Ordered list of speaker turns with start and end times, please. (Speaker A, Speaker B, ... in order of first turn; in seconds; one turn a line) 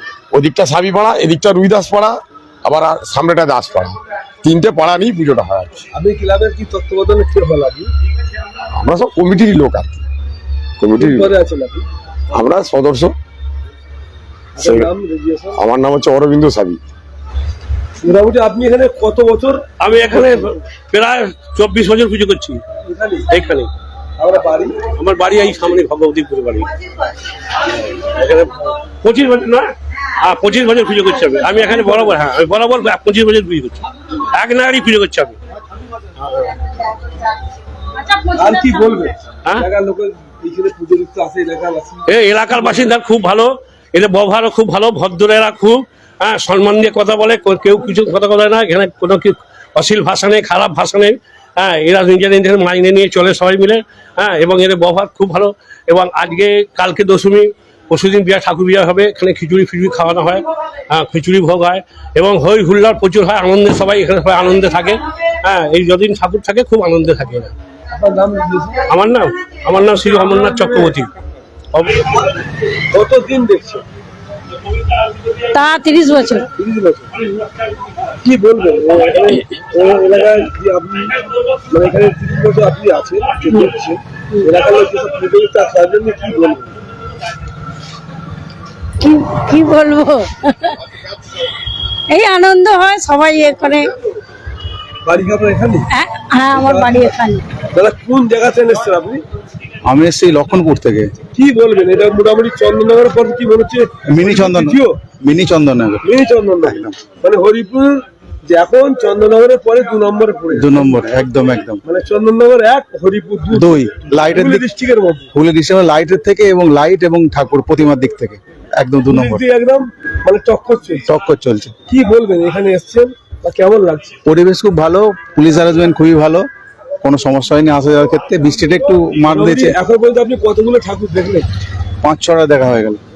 Speaker A: 0.3-5.8
Speaker B: 5.9-7.9
Speaker A: 8.8-10.0
Speaker A: 10.8-11.3
Speaker B: 11.0-11.8
Speaker A: 12.3-13.2
Speaker B: 14.6-15.6
Speaker A: 14.6-14.9
Speaker A: 15.6-16.8
Speaker B: 18.0-19.7
Speaker C: 19.8-22.6
Speaker B: 22.8-23.3
Speaker C: 23.3-23.7
Speaker B: 24.2-24.8
Speaker C: 24.9-26.7
Speaker C: 27.9-29.7
Speaker C: 30.2-35.4
Speaker B: 38.4-42.1
Speaker C: 42.1-67.5
Speaker B: 68.0-68.9
Speaker C: 68.9-71.1
Speaker B: 70.1-70.9
Speaker C: 71.7-72.1
Speaker B: 72.9-73.8
Speaker D: 75.5-76.5
Speaker B: 76.5-77.3
Speaker B: 78.2-81.2
Speaker B: 81.7-86.7
Speaker D: 89.0-90.8
Speaker D: 92.1-93.9
Speaker B: 95.0-95.9
Speaker D: 95.9-97.5
Speaker B: 96.5-97.1
Speaker B: 97.7-99.2
Speaker E: 99.9-101.1
Speaker B: 101.3-105.0
Speaker E: 104.1-106.1
Speaker B: 106.0-110.9
Speaker E: 106.6-107.0
Speaker E: 110.5-111.8
Speaker B: 111.8-115.3
Speaker E: 113.5-114.7
Speaker E: 115.3-119.4
Speaker B: 119.1-121.1
Speaker E: 121.1-121.7
Speaker B: 121.9-124.2
Speaker E: 124.2-126.5
Speaker E: 127.0-129.8
Speaker B: 129.3-131.5
Speaker E: 132.0-133.0